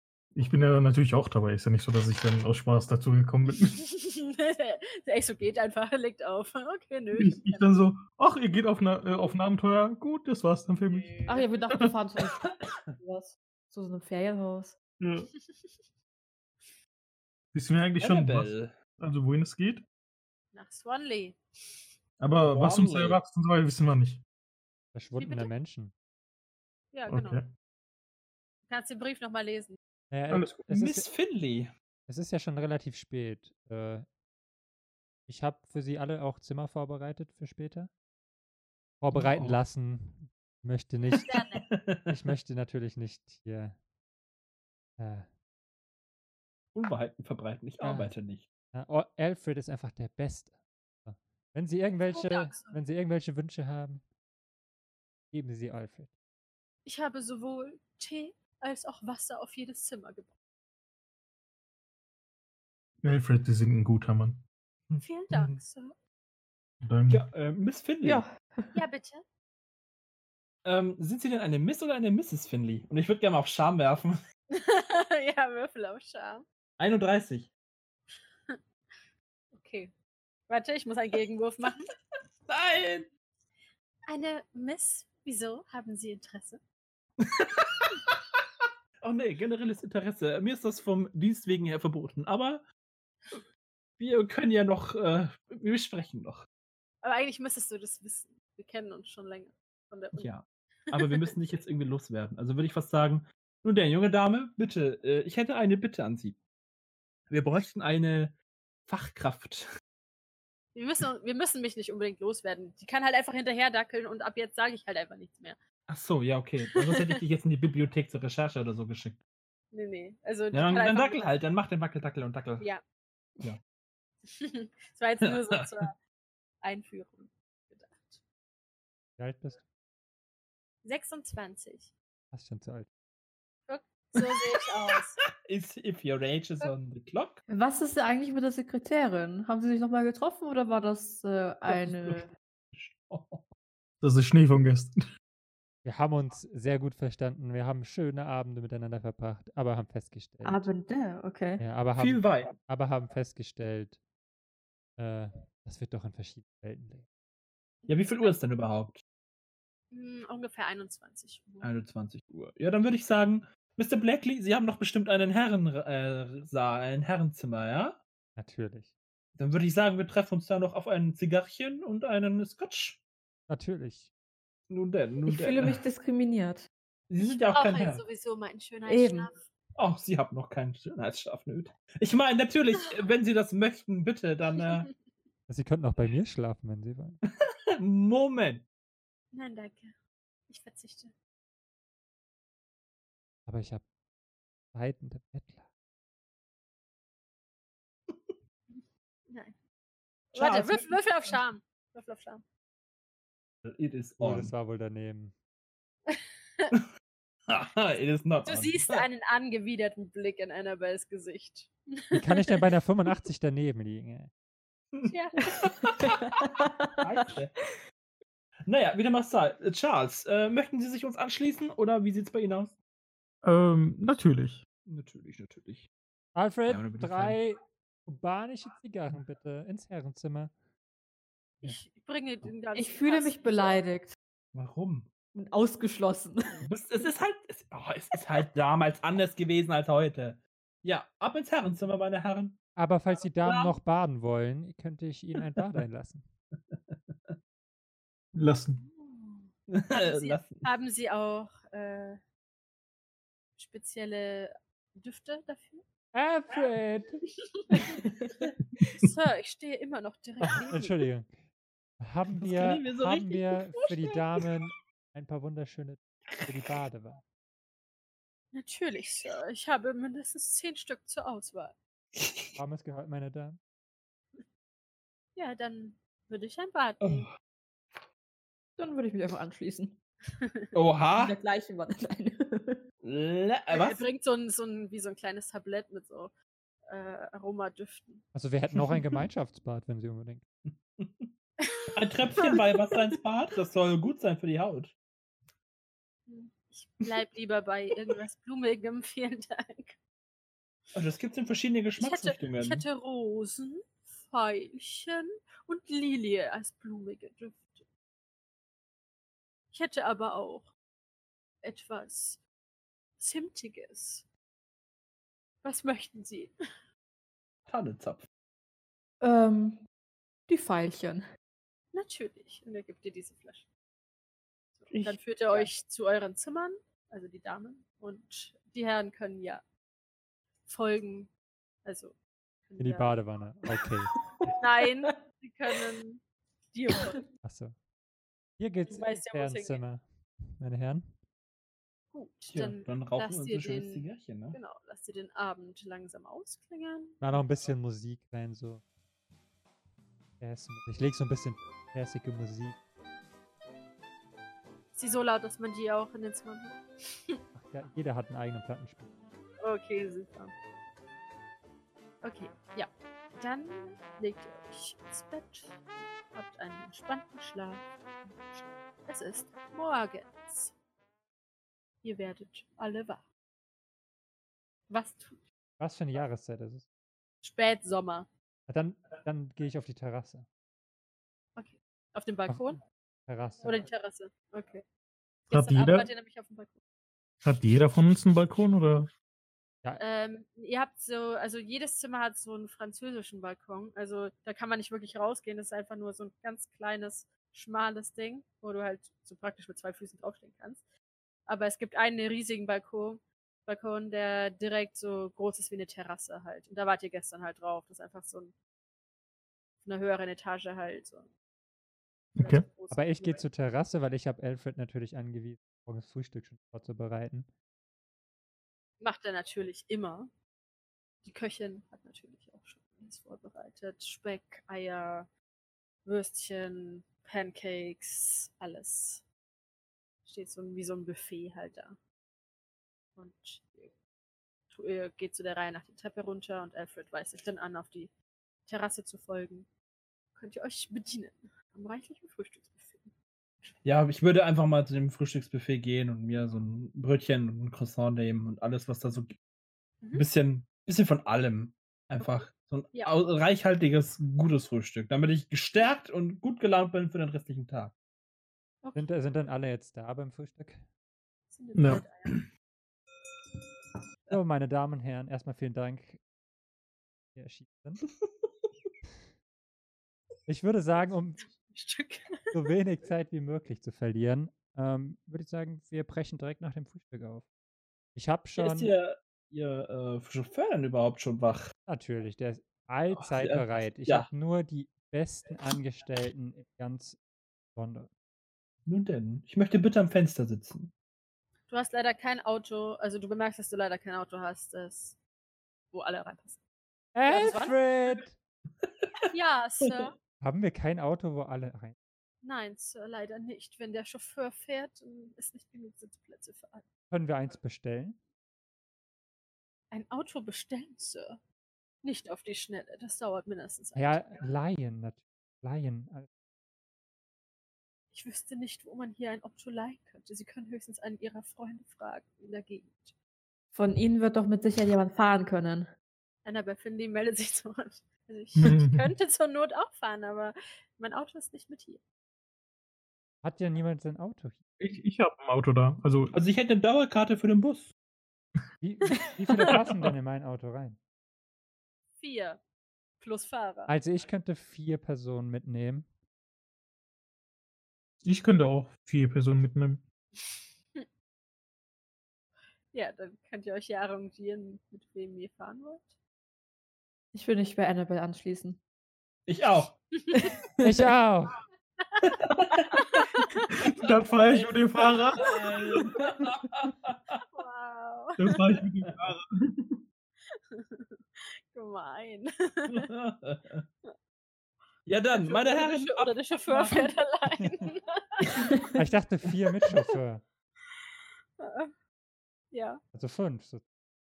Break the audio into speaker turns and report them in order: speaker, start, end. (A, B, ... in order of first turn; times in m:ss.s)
0:00.4-0:03.8 A
0:03.7-0:07.7 B
0:07.2-0:12.0 A
0:11.0-0:11.5 B
0:11.3-0:14.8 C
0:15.0-0:15.3 A
0:15.4-0:15.8 B
0:17.5-0:19.8 A
0:18.0-0:18.7 D
0:20.5-0:21.8 B
0:22.2-0:24.2 A
0:22.4-0:23.2 D
0:24.9-0:25.9 E
0:25.2-0:25.5 B
0:26.9-0:27.4 B
0:27.1-0:27.5 A
0:28.7-0:29.8 B
0:30.1-0:31.1 E
0:30.3-0:30.6 A
0:30.7-0:31.7 D
0:32.1-0:34.1 E
0:35.3-0:37.9 E
0:39.0-0:41.4 E
0:39.1-0:39.6 D
0:41.2-0:42.2 D
0:41.2-0:41.6 B
0:42.1-0:43.8 E
0:45.0-0:45.3 E
0:46.7-0:48.4 D
0:47.8-0:48.1 E
0:48.7-0:50.5 E
0:51.0-0:54.0 E
0:52.1-0:52.8 B
0:55.3-0:56.1 E
0:56.8-1:00.3 B
1:03.0-1:04.4 A
1:04.9-1:05.6 D
1:05.0-1:06.0 B
1:06.8-1:07.2 A
1:07.1-1:08.2 D
1:08.0-1:08.8 C
1:08.7-1:09.2 B
1:10.6-1:14.2 D
1:14.5-1:16.5 B
1:16.8-1:17.5 D
1:19.5-1:19.9 B
1:20.5-1:21.9 B
1:22.5-1:23.1 D
1:24.1-1:26.6 B
1:27.2-1:28.2 D
1:29.0-1:32.6 D
1:34.0-1:36.5 D
1:37.0-1:40.3 B
1:40.2-1:46.4 D
1:40.9-1:41.3 B
1:47.3-1:49.7 D
1:50.8-1:55.6 B
1:55.9-1:59.2 D
1:56.8-1:57.1 B
1:59.7-2:01.3 B
2:00.5-2:02.7 D
2:04.2-2:06.0 B
2:05.2-2:05.6 D
2:06.6-2:08.2 B
2:09.2-2:09.6 E
2:10.8-2:11.9 B
2:12.3-2:12.9 E
2:13.7-2:15.2 B
2:14.2-2:14.4 D
2:15.4-2:17.4 D
2:17.5-2:22.3 C
2:21.7-2:22.2 D
2:22.7-2:23.5 D
2:24.0-2:25.0 A
2:25.8-2:30.7 E
2:30.4-2:31.6 C
2:31.6-2:34.0 E
2:32.0-2:32.5 D
2:35.0-2:37.0 E
2:37.8-2:38.4 B
2:37.9-2:39.0 D
2:39.9-2:41.7 B
2:41.6-2:48.0 D
2:48.4-2:48.9 E
2:49.4-2:53.0 D
2:53.5-2:54.1 E
2:54.7-2:55.8 D
2:55.3-2:56.7 C
2:57.1-2:58.0 D
2:57.2-2:59.4 B
2:58.9-2:59.3 C
2:59.8-3:04.9 D
3:05.5-3:07.2 E
3:07.4-3:08.6 D
3:09.3-3:10.0 B
3:10.5-3:11.1 B
3:13.5-3:13.8 E
3:14.7-3:15.6 E
3:18.7-3:19.6 B
3:20.3-3:22.4 B
3:20.4-3:21.0 D
3:23.6-3:24.5 D
3:24.2-3:25.3 E
3:26.1-3:26.7 B
3:27.5-3:29.1 D
3:28.4-3:32.6 B
3:32.1-3:34.3 E
3:35.1-3:35.7 B
3:35.6-3:36.2 D
3:35.9-3:37.3 C
3:37.0-3:37.5 D
3:38.7-3:42.8 D
3:43.4-3:44.6 A
3:44.9-3:45.9 D
3:46.4-3:50.5 E
3:46.7-3:47.4 D
3:51.6-3:53.8 B
3:52.8-3:54.1 C
3:54.5-3:55.1 D
3:55.3-3:56.6 C
3:56.6-4:02.6 D
4:02.8-4:06.3 E
4:03.4-4:03.7 D
4:05.4-4:05.6 D
4:06.7-4:07.4 D
4:08.4-4:08.8 A
4:08.8-4:12.2 B
4:09.7-4:10.7 D
4:13.6-4:15.8 B
4:16.1-4:17.2 E
4:17.6-4:18.0 B
4:18.9-4:21.0 B
4:20.4-4:21.4 E
4:22.0-4:27.2 E
4:22.4-4:23.6 D
4:28.5-4:31.8 B
4:32.2-4:32.5 D
4:32.6-4:33.6 E
4:35.4-4:37.3 B
4:37.0-4:37.3 D
4:38.8-4:40.0 C
4:40.4-4:40.7 B
4:40.7-4:41.4 D
4:41.2-4:42.8 C
4:43.0-4:44.0 D
4:43.7-4:46.3 B
4:46.9-4:48.2 B
4:48.3-4:50.4 E
4:50.7-4:51.3 D
4:51.6-4:53.0 B
4:51.9-4:54.9 D
4:56.3-5:00.0 B
5:00.9-5:02.8 D
5:02.0-5:07.9 B
5:09.7-5:10.7 B
5:11.6-5:12.4 B
5:13.2-5:14.3 B
5:15.6-5:16.5 B
5:17.7-5:18.2 D
5:19.2-5:19.8 C
5:20.5-5:21.2 C
5:21.9-5:23.7 B
5:24.8-5:29.6 B
5:24.9-5:25.7 C
5:30.7-5:31.3 B
5:31.8-5:32.2 B
5:32.7-5:33.2 B
5:32.8-5:34.2 E
5:34.6-5:37.2 B
5:37.4-5:37.8 E
5:38.6-5:40.0 E
5:38.8-5:39.8 B
5:40.6-5:41.2 E
5:42.1-5:47.4 B
5:42.5-5:44.6 D
5:47.2-5:48.8 E
5:50.4-5:52.8 E
5:55.0-5:57.4 B
5:57.6-5:59.1 E
5:59.6-6:00.5 B
6:02.2-6:05.8 B
6:06.3-6:07.8 B
6:08.5-6:10.8 B
6:12.0-6:13.2 B
6:14.9-6:15.4 B
6:15.8-6:16.8 E
6:17.4-6:18.3 B
6:18.7-6:20.5 E
6:21.6-6:22.8 B
6:23.3-6:23.9 E
6:23.6-6:24.8 B
6:25.5-6:26.8 B
6:25.5-6:26.1 A
6:27.4-6:29.1 A
6:30.0-6:40.8 B
6:41.5-6:48.6 B
6:49.8-6:51.3 B
6:52.4-6:52.6 A
6:52.4-6:53.4 B
6:52.9-6:57.5 E
6:59.0-7:00.3 B
7:01.2-7:05.3 B
7:06.0-7:09.2 B
7:10.2-7:12.0 B
7:13.2-7:13.9 B
7:14.7-7:18.1 B
7:18.7-7:19.7 B
7:20.4-7:23.1 B
7:23.8-7:29.4 D
7:30.1-7:37.9 D
7:32.2-7:33.1 B
7:39.0-7:40.8 E
7:41.5-7:42.4 B
7:41.8-7:42.0 A
7:44.3-7:46.2 E
7:47.4-7:48.1 E
7:50.5-7:51.5 E
7:51.6-7:52.6 B
7:52.5-7:57.4 E
7:58.2-7:58.9 E
7:58.6-8:01.7 D
8:01.9-8:07.2 E
8:03.1-8:04.3 D
8:07.8-8:08.1 E
8:08.9-8:10.9 D
8:11.7-8:15.2 B
8:15.9-8:16.6 B
8:17.2-8:18.4 E
8:17.3-8:17.8 B
8:18.8-8:19.3 D
8:19.3-8:20.2 B
8:19.8-8:20.1 D
8:20.4-8:22.0 E
8:22.4-8:26.8 B
8:27.1-8:28.2 E
8:29.9-8:31.4 B
8:32.0-8:34.4 B
8:34.0-8:36.3 E
8:38.1-8:43.2 B
8:43.7-8:45.9 C
8:46.4-8:52.0 B
8:48.6-8:49.1 A
8:53.4-8:54.6 E
8:54.8-8:56.4 A
8:56.3-8:57.9 D
8:58.8-9:01.0 E
8:59.8-9:00.1 A
9:02.2-9:02.6 B
9:03.2-9:03.9 B
9:03.9-9:06.1 E
9:08.2-9:10.0 A
9:12.9-9:16.2 B
9:17.3-9:18.8 C
9:19.5-9:20.0 D
9:20.3-9:20.5 B
9:20.3-9:21.1 C
9:20.8-9:21.6 E
9:22.0-9:22.3 B
9:22.3-9:23.0 D
9:22.9-9:23.6 B
9:23.8-9:26.1 A
9:24.5-9:25.5 B
9:25.4-9:27.4 D
9:27.5-9:28.7 B
9:28.4-9:30.0 A
9:30.6-9:33.1 B
9:32.9-9:33.8 D
9:35.1-9:37.0 D
9:35.3-9:38.6 B
9:38.6-9:39.0 C
9:39.0-9:40.4 E
9:41.6-9:41.9 B
9:42.7-9:43.0 B
9:43.1-9:43.8 E